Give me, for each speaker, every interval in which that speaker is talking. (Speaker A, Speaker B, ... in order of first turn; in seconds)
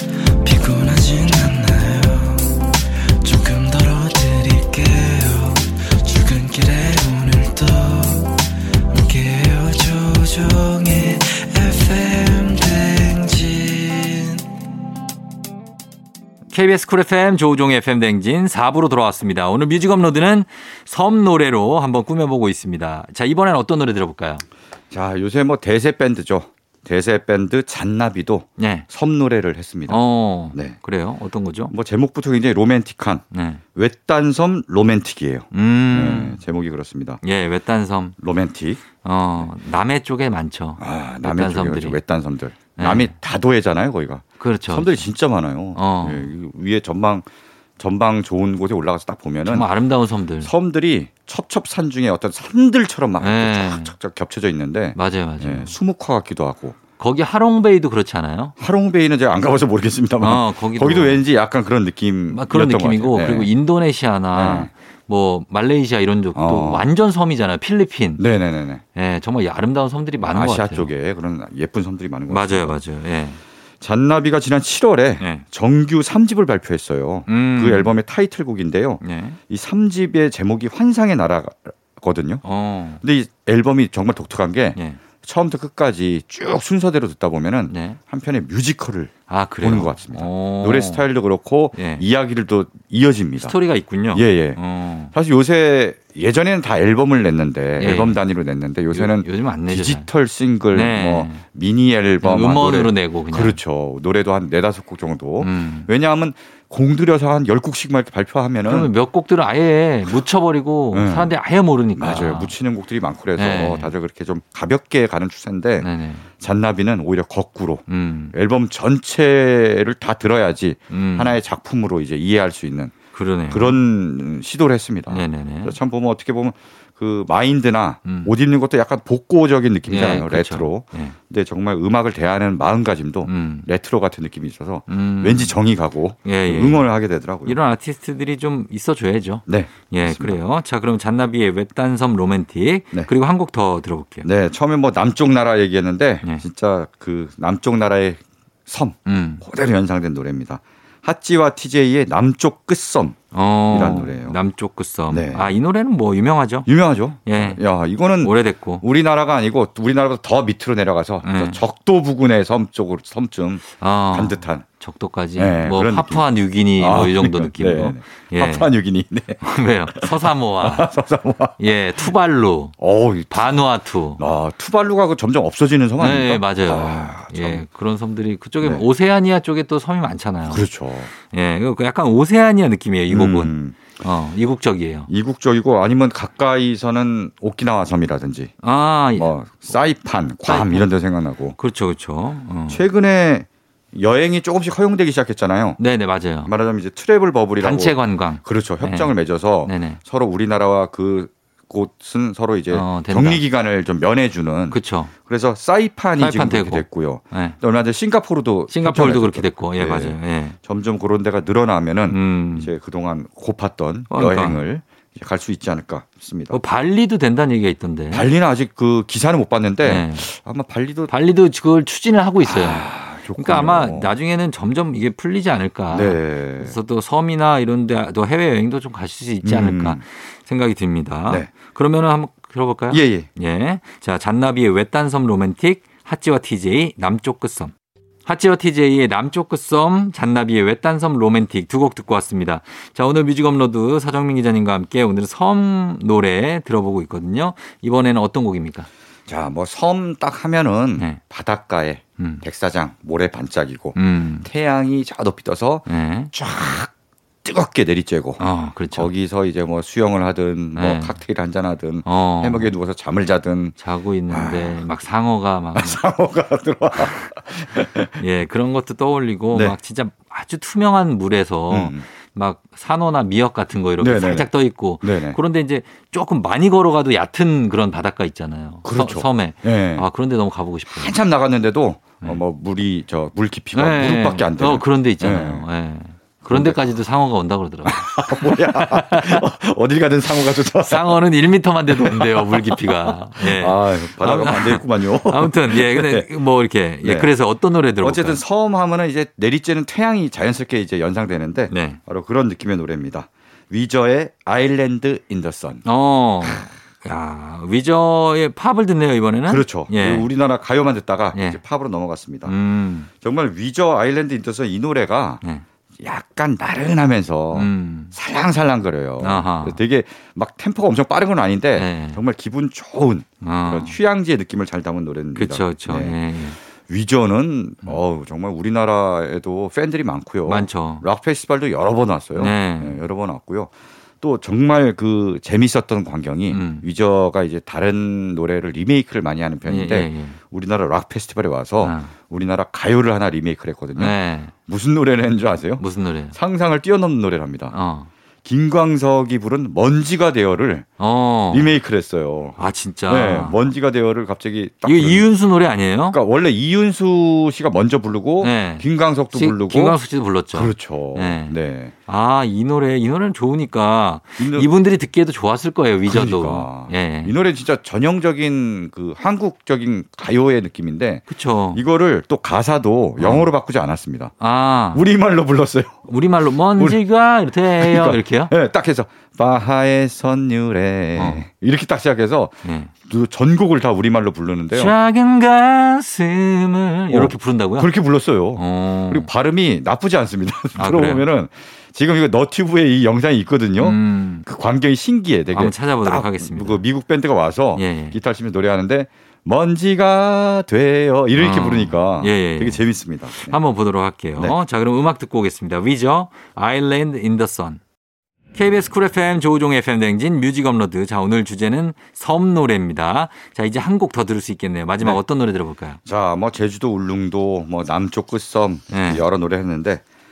Speaker A: 0.4-2.7, 3.2-14.4
Speaker B: 16.5-24.4, 28.6-28.9, 29.9-31.7, 33.3-33.6, 35.5-36.4, 37.2-38.1, 38.9-42.0, 42.8-43.1, 44.4-45.0, 45.8-46.3, 49.5-50.5, 53.2-53.9, 55.0-55.7, 57.0-58.5, 60.2-61.2, 62.3-68.2, 69.0-70.9, 72.3-73.4, 77.3-77.9, 79.0-79.4, 82.5-83.0, 87.7-88.0, 89.3-91.0, 91.8-92.0, 93.5-95.1, 97.8-98.2, 98.9-100.1, 100.7-101.4, 102.2-103.6, 105.4-105.9, 108.7-112.5, 113.4-113.9, 115.8-116.2, 117.9-118.3, 120.9-121.4, 123.2-123.8, 125.1-125.8, 128.0-128.3, 129.9-131.1, 133.3-133.7, 134.9-135.5, 136.2-136.8, 137.5-144.3, 149.1-149.4, 153.3-156.7, 157.3-157.6, 158.2-158.8, 161.2-161.6, 163.7-168.7, 169.4-170.9, 171.6-172.7, 173.3-174.2, 176.0-180.6, 181.3-185.1, 188.6-189.3, 190.5-190.9, 191.6-192.8, 195.8-196.5, 197.6-199.1, 199.7-200.0, 202.7-203.4, 204.7-205.1, 206.2-207.6, 208.7-210.6, 212.1-212.7, 214.1-214.6, 216.5-218.3, 219.8-220.2, 221.1-222.8, 223.4-237.7, 238.3-248.9, 252.2-252.4, 254.0-254.5, 255.9-256.3, 258.4-259.1, 260.8-261.1, 262.1-262.7, 263.8-266.0, 268.2-281.1, 283.7-289.4, 290.9-298.4, 301.7-302.0, 305.9-310.3, 311.3-311.6, 312.5-313.1, 317.5-318.1, 319.2-319.8, 321.8-322.2, 323.4-323.9, 325.4-326.6, 330.5-331.0, 332.4-333.0, 336.5-336.8, 339.7-340.4, 341.8-342.1, 344.0-344.5, 345.8-346.4, 347.7-348.1, 351.0-351.7, 352.6-353.6, 354.9-356.2, 358.4-361.5, 362.1-367.3, 371.3-371.8, 373.2-373.5, 374.4-375.0, 376.1-378.5, 381.2-381.4, 382.6-382.9, 384.7-387.9, 388.6-389.3, 390.8-391.2, 393.8-394.4, 395.5-396.8, 397.8-398.2, 401.4-402.8, 403.4-407.8, 408.6-416.0, 418.9-419.2
Speaker C: 24.9-30.0, 31.7-33.2, 33.8-37.2, 38.2-38.9, 40.8-47.3, 47.8-49.7, 50.4-56.8, 58.6-63.5, 64.3-64.7, 66.4-66.8, 68.2-68.8, 70.2-72.8, 73.8-82.4, 83.0-93.5, 94.1-94.6, 95.1-108.9, 110.9-111.3, 112.0-123.0, 123.5-137.6, 139.5-140.4, 144.2-154.4, 155.1-155.5, 156.7-164.7, 165.4-166.2, 166.8-169.4, 169.9-171.6, 172.8-173.6, 174.2-177.7, 180.5-181.1, 183.1-183.9, 185.1-188.5, 189.2-191.6, 192.7-195.8, 196.5-216.6, 218.1-221.1, 222.4-224.1, 225.9-226.8, 229.4-230.0, 232.9-233.3, 249.3-256.9, 257.4-263.8, 264.3-264.9, 265.8-268.2, 269.5-269.8, 271.7-272.1, 274.0-274.5, 275.0-275.4, 278.8-280.1, 280.9-285.7, 286.4-286.8, 287.9-291.2, 291.9-296.3, 297.0-297.3, 298.0-305.8, 309.5-312.5, 313.2-315.4, 316.0-326.2, 326.9-347.7, 348.4-350.9, 351.5-355.3, 356.1-360.0, 360.5-361.9, 364.4-364.7, 366.1-374.3, 374.9-376.1, 376.8-377.0, 377.8-384.9, 387.1-403.6, 416.1-420.0